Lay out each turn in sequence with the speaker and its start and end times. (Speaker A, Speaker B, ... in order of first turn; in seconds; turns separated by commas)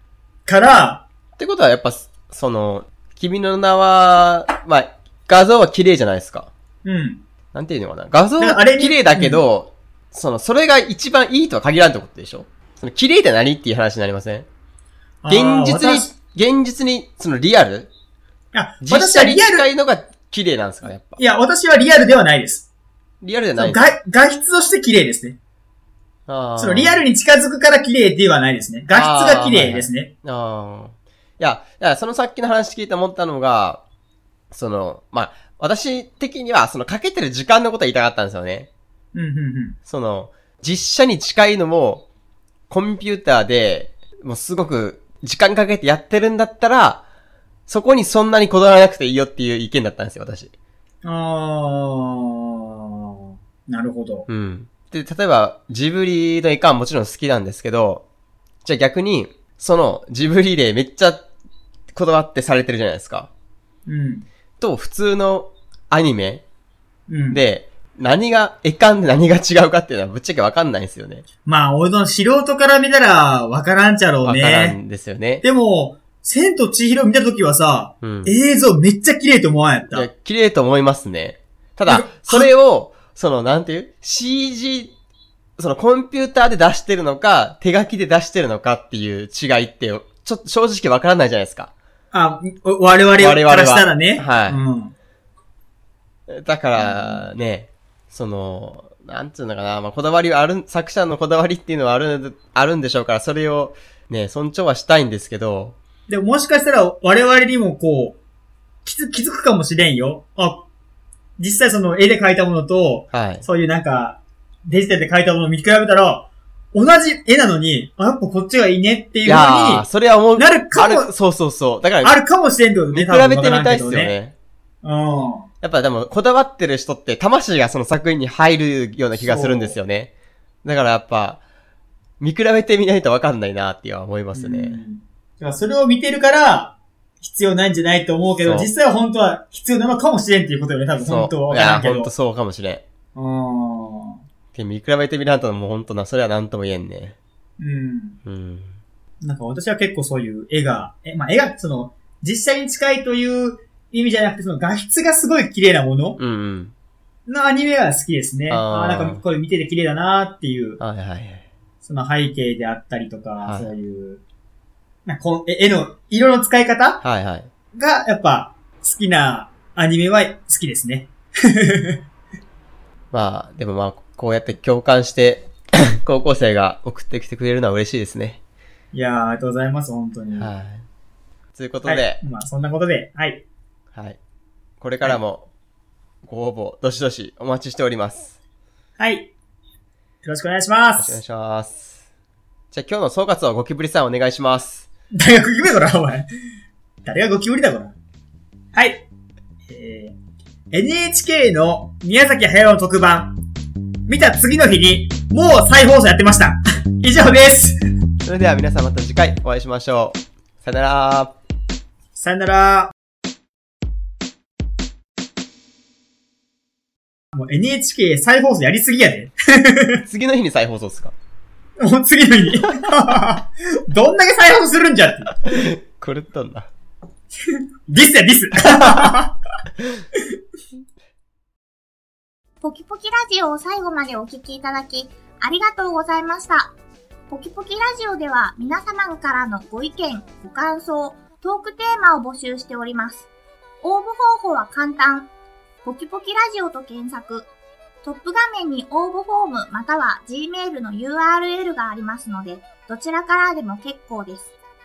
Speaker A: 0.5-1.0, Speaker B: 1.4-6.5, Speaker A: 6.8-7.2, Speaker B: 7.5-14.5, Speaker A: 8.4-9.4, Speaker A: 15.2-16.1, Speaker B: 15.3-17.9, Speaker A: 18.5-19.7, Speaker B: 18.8-21.2, Speaker A: 21.2-22.7, Speaker B: 23.2-23.9, Speaker A: 23.6-25.4, Speaker B: 26.3-27.0, Speaker A: 26.6-30.1, Speaker B: 28.9-33.8, Speaker B: 34.5-38.7, Speaker A: 39.1-39.8, Speaker B: 39.9-42.0, Speaker B: 42.7-47.0, Speaker B: 47.7-50.5, Speaker A: 51.0-54.3, Speaker B: 54.3-58.0, Speaker B: 58.6-61.2, Speaker B: 61.9-63.3, Speaker A: 63.9-64.2, Speaker B: 64.6-66.4, Speaker A: 67.1-67.4, Speaker B: 67.3-71.2, Speaker A: 71.5-74.8, Speaker B: 74.2-75.4, Speaker A: 75.4-80.1, Speaker B: 78.0-78.3, Speaker B: 79.9-84.9, Speaker A: 81.9-82.5, Speaker B: 85.6-91.7, Speaker A: 92.1-94.9, Speaker B: 93.2-94.6, Speaker B: 96.3-105.8, Speaker A: 96.8-97.2, Speaker A: 106.1-108.2, Speaker A: 108.8-110.7, Speaker A: 111.4-121.1, Speaker B: 113.1-113.4, Speaker B: 119.2-122.2, Speaker A: 122.0-124.1, Speaker B: 122.9-124.3, Speaker A: 124.8-125.5, Speaker B: 125.6-130.1, Speaker A: 129.2-129.8, Speaker B: 130.6-131.4, Speaker B: 132.2-134.8, Speaker A: 134.3-142.1, Speaker B: 138.4-138.7, Speaker B: 141.0-142.8, Speaker A: 143.1-144.2, Speaker B: 144.5-147.2, Speaker A: 147.6-148.2, Speaker B: 148.2-148.7, Speaker A: 149.2-156.2, Speaker B: 156.2-156.7, Speaker A: 157.3-160.8, Speaker B: 158.5-159.2, Speaker B: 160.8-161.4, Speaker A: 161.8-164.2, Speaker B: 163.4-163.7, Speaker A: 165.1-167.0, Speaker B: 167.0-167.5, Speaker A: 167.7-172.0, Speaker B: 173.1-178.4, Speaker A: 178.9-180.5, Speaker B: 180.4-180.9, Speaker B: 181.5-182.2, Speaker A: 181.8-183.4, Speaker B: 184.8-185.5, Speaker B: 186.3-188.4, Speaker A: 189.0-189.3, Speaker A: 190.2-191.2, Speaker B: 191.0-192.0, Speaker B: 192.7-194.9, Speaker A: 195.1-196.2, Speaker A: 197.0-197.9, Speaker A: 198.7-199.0, Speaker A: 199.7-200.1, Speaker A: 200.7-203.4, Speaker A: 204.1-207.8, Speaker B: 208.2-211.3, Speaker A: 212.1-212.9, Speaker A: 217.3-220.0, Speaker B: 220.0-221.1, Speaker A: 221.8-225.3, Speaker B: 225.4-226.7, Speaker A: 227.5-229.4, Speaker B: 228.7-229.2, Speaker C: 232.6-236.7, Speaker C: 237.3-243.3, Speaker C: 243.8-245.3, Speaker C: 245.8-247.5, Speaker C: 248.0-254.5